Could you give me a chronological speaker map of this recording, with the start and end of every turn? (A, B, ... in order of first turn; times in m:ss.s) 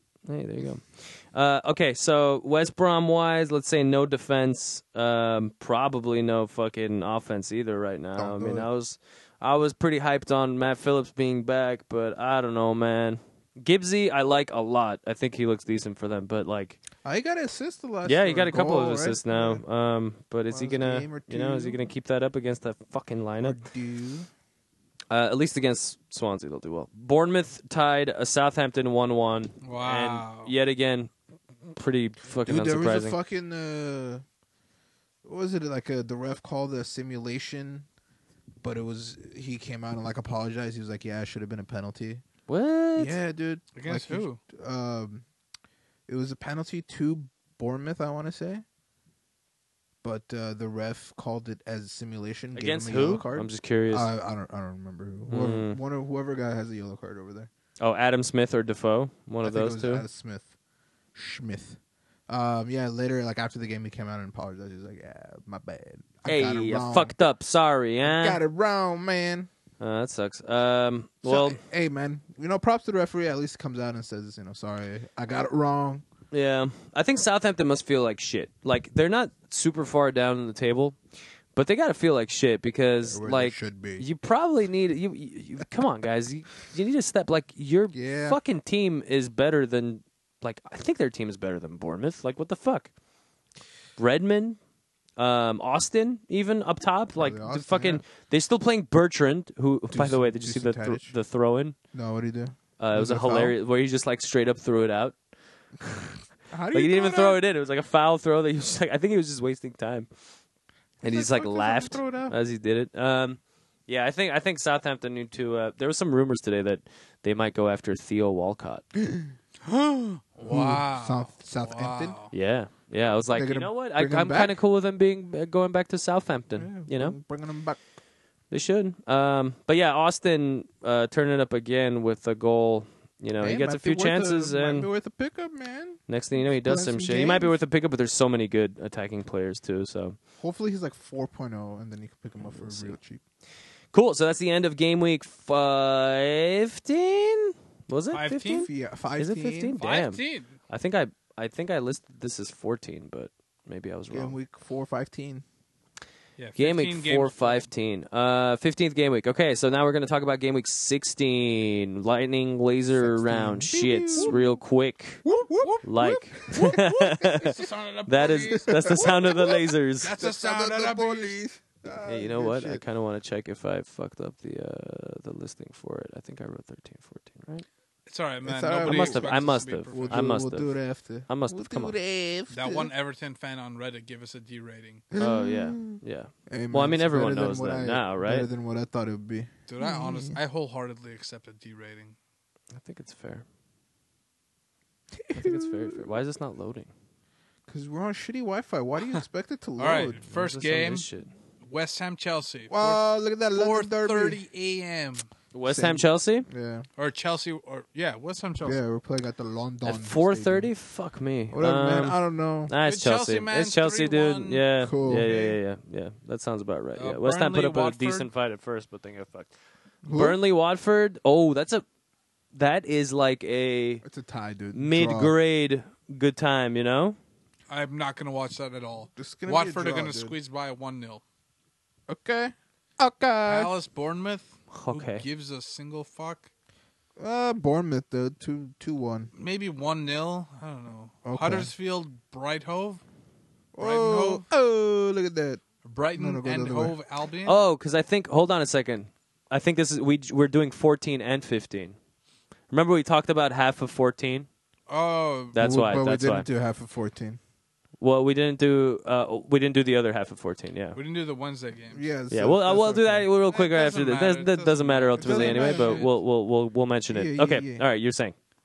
0:00.3-0:16.8 A
0:08.2-0:08.7 B
0:17.0-0:19.6 B
0:18.0-0:23.6 A
0:20.5-0:21.8 B
0:23.4-0:24.3 B
0:25.1-0:31.1 A
0:29.6-0:30.5 C
0:31.8-0:33.2 A
0:32.4-0:34.2 B
0:35.2-0:37.9 B
0:38.6-0:42.2 B
0:42.5-0:43.2 A
0:43.0-0:45.2 B
0:43.8-0:44.4 C
0:46.1-0:48.6 B
0:50.0-0:57.5 B
0:52.6-0:54.1 A
0:55.3-0:55.8 A
0:57.8-1:00.0 A
0:59.4-1:00.5 B
1:01.1-1:07.2 B
1:06.3-1:08.4 A
1:08.0-1:09.5 B
1:09.8-1:11.6 A
1:11.2-1:16.0 B
1:16.3-1:21.0 A
1:21.5-1:32.9 A
1:23.1-1:24.1 B
1:27.9-1:28.4 B
1:34.0-1:34.6 A
1:35.2-1:41.8 A
1:37.2-1:38.0 B
1:39.9-1:41.2 B
1:41.9-1:43.6 B
1:42.8-1:45.2 A
1:46.5-1:47.4 B
1:46.7-1:50.1 A
1:51.0-1:52.3 B
1:51.0-1:58.8 A
1:59.0-1:59.3 B
1:59.6-2:02.3 C
2:00.5-2:02.2 B
2:02.3-2:07.2 A
2:03.3-2:04.6 B
2:06.6-2:07.8 B
2:08.5-2:14.9 A
2:13.4-2:17.6 B
2:16.1-2:20.2 A
2:20.4-2:23.2 B
2:22.5-2:23.0 A
2:23.9-2:34.4 A
2:28.1-2:28.7 C
2:28.6-2:29.8 B
2:29.8-2:30.6 C
2:34.1-2:35.4 B
2:36.4-2:37.7 C
2:36.6-2:45.3 A
2:42.9-2:44.4 B
2:45.2-2:46.9 B
2:45.8-2:50.2 A
2:46.6-2:49.2 C
2:48.5-2:52.8 B
2:50.0-2:51.4 C
2:52.0-2:57.7 A
2:58.1-3:00.3 C
2:58.4-3:02.9 B
2:58.8-3:02.0 A
3:02.5-3:05.0 C
3:05.1-3:10.4 B
3:05.2-3:08.5 A
3:09.7-3:12.2 C
3:12.8-3:13.4 A
3:15.1-3:16.1 B
3:15.3-3:16.9 A
3:17.7-3:20.2 B
3:19.8-3:21.1 C
3:20.3-3:21.3 A
3:21.6-3:25.3 C
3:22.7-3:24.4 B
3:25.5-3:26.5 A
3:25.7-3:26.9 B
3:27.0-3:28.8 C
3:28.6-3:30.7 B
3:29.8-3:39.5 A
3:31.5-3:32.7 B
3:32.8-3:34.7 C
3:34.8-3:35.6 B
3:37.0-3:38.3 C
3:40.0-3:40.4 B
3:40.1-3:41.8 A
3:42.5-3:44.0 A
3:44.0-3:45.4 B
3:44.7-3:47.2 A
3:47.7-3:51.2 C
3:49.2-3:50.4 B
3:52.1-3:53.7 B
3:53.4-3:56.5 C
3:54.7-3:55.2 A
3:57.2-3:59.3 B
3:59.4-4:03.0 C
4:01.2-4:01.7 B
4:03.8-4:05.6 B
4:03.8-4:04.4 C
4:05.8-4:07.6 C
4:06.2-4:07.0 B
4:07.4-4:12.0 A
4:12.7-4:14.5 A
4:14.9-4:15.6 C
4:15.5-4:16.5 A
4:15.6-4:17.4 B
4:18.0-4:21.0 A
4:21.0-4:22.1 C
4:21.9-4:23.3 B
4:22.3-4:28.4 A
4:23.4-4:26.1 C
4:25.2-4:26.1 B
4:27.1-4:27.8 B